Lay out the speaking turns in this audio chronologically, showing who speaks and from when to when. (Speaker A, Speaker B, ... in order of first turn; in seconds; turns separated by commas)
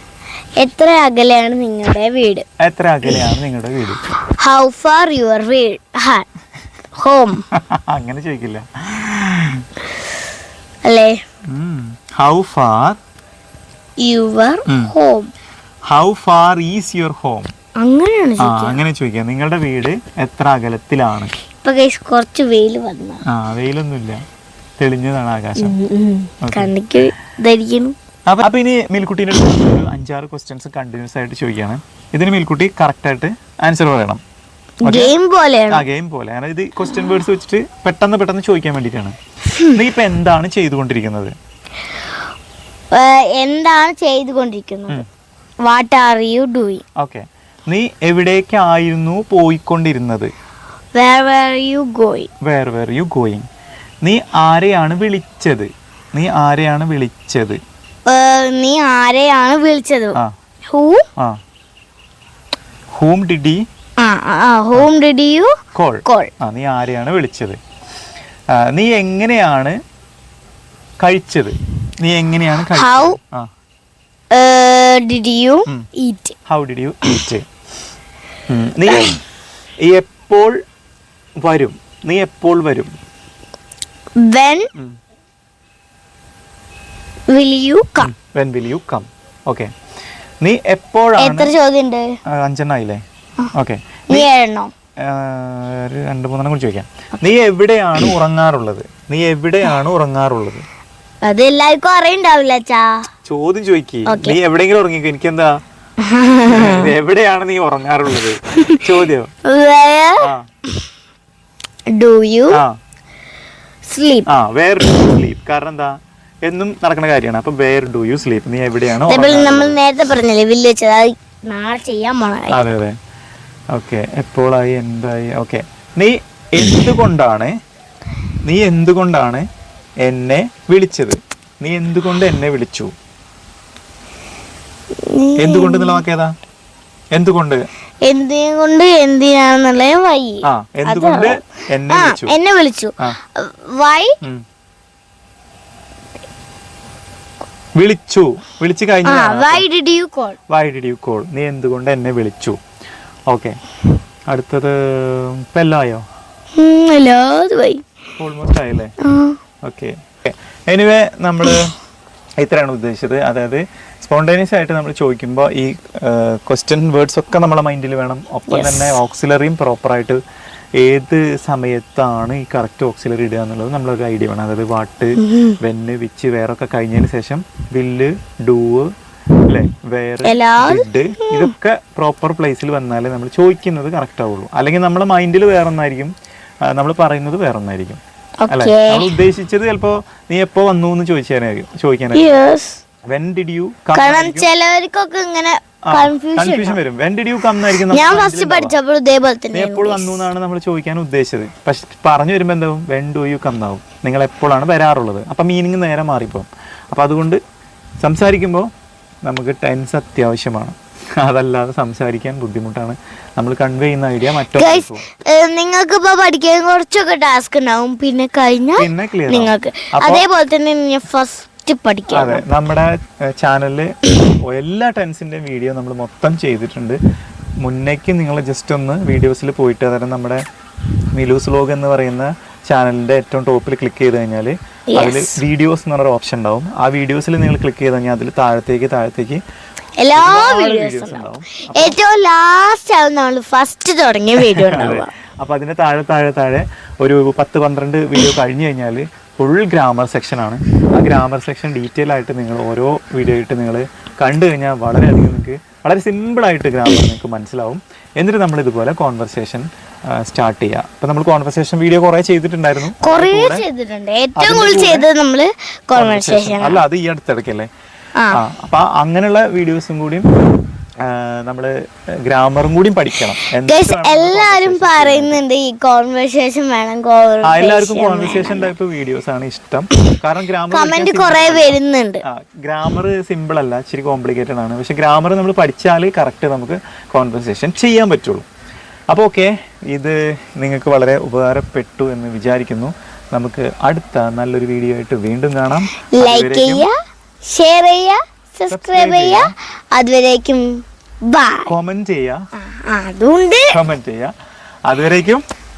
Speaker A: 0.6-2.5, Speaker B: 2.6-4.0, Speaker A: 4.4-6.2, Speaker A: 7.0-7.4, Speaker B: 7.5-9.6, Speaker A: 10.8-11.2, Speaker B: 11.5-13.0, Speaker A: 14.0-15.3, Speaker B: 15.9-17.5, Speaker A: 17.8-18.8, Speaker B: 18.4-21.3, Speaker A: 21.6-23.2, Speaker B: 23.2-24.2, Speaker B: 24.8-25.8, Speaker A: 25.6-27.9, Speaker B: 26.4-26.7, Speaker B: 28.3-34.2, Speaker A: 34.8-35.8, Speaker B: 34.8-35.1, Speaker B: 35.7-41.3, Speaker A: 42.9-45.0, Speaker A: 45.6-46.8, Speaker B: 47.0-50.3, Speaker A: 50.9-52.3, Speaker B: 52.4-53.4, Speaker B: 54.0-57.6, Speaker A: 58.0-61.1, Speaker B: 62.9-63.6, Speaker A: 64.0-65.5, Speaker B: 65.7-67.6, Speaker A: 66.0-66.3, Speaker B: 68.5-69.8, Speaker B: 71.0-73.5, Speaker A: 72.7-73.2, Speaker A: 74.3-76.3, Speaker B: 76.5-77.4, Speaker B: 78.5-79.2, Speaker B: 79.8-80.6, Speaker B: 81.4-82.9, Speaker A: 84.2-84.7, Speaker A: 87.3-88.1, Speaker B: 88.0-89.7, Speaker B: 90.4-91.5, Speaker A: 91.2-92.2, Speaker B: 92.2-93.0, Speaker B: 93.5-94.3, Speaker A: 94.1-94.7, Speaker B: 95.0-100.6, Speaker A: 101.2-103.1, Speaker B: 103.2-105.6, Speaker A: 104.0-104.3, Speaker A: 106.0-106.9, Speaker B: 106.5-109.3, Speaker A: 109.4-110.3, Speaker A: 111.9-112.6, Speaker A: 113.9-114.3, Speaker B: 114.3-115.9, Speaker B: 116.5-119.8, Speaker A: 119.0-122.6, Speaker B: 122.5-123.0, Speaker B: 123.7-127.5, Speaker B: 128.4-129.4, Speaker B: 130.0-132.9, Speaker A: 134.9-136.0, Speaker B: 135.4-136.3, Speaker B: 137.1-137.6, Speaker A: 138.0-144.2, Speaker B: 140.4-142.3, Speaker B: 147.8-149.6, Speaker A: 149.0-150.4, Speaker B: 150.5-152.6, Speaker B: 153.3-153.6, Speaker B: 154.3-156.0, Speaker A: 156.6-157.8, Speaker B: 158.2-158.9, Speaker A: 159.0-159.4, Speaker B: 159.7-161.7, Speaker B: 162.4-170.2, Speaker A: 168.5-168.9, Speaker B: 170.8-178.9, Speaker A: 175.2-175.6, Speaker B: 179.5-186.1, Speaker A: 180.2-181.5, Speaker B: 186.7-188.0, Speaker A: 188.4-189.2, Speaker B: 188.5-192.3, Speaker A: 192.1-192.8, Speaker B: 193.1-194.5, Speaker A: 193.9-196.8, Speaker B: 195.9-198.7, Speaker A: 197.7-200.3, Speaker B: 199.5-207.4, Speaker B: 208.0-208.7, Speaker B: 209.2-215.0, Speaker A: 214.5-222.4, Speaker B: 218.8-220.2, Speaker B: 222.1-227.0, Speaker B: 227.6-230.4, Speaker B: 231.1-239.4, Speaker A: 234.9-235.4, Speaker A: 240.0-245.1, Speaker B: 240.1-242.0, Speaker B: 244.4-263.6, Speaker A: 263.0-266.8, Speaker B: 264.4-265.1, Speaker B: 265.9-267.7, Speaker B: 268.3-270.2, Speaker B: 271.0-275.4, Speaker A: 273.5-278.7, Speaker B: 277.4-288.4, Speaker A: 280.7-282.2, Speaker B: 289.1-296.9, Speaker A: 296.1-301.7, Speaker B: 298.7-299.5, Speaker B: 301.6-302.4, Speaker A: 302.6-303.8, Speaker B: 303.7-304.3, Speaker B: 304.9-305.4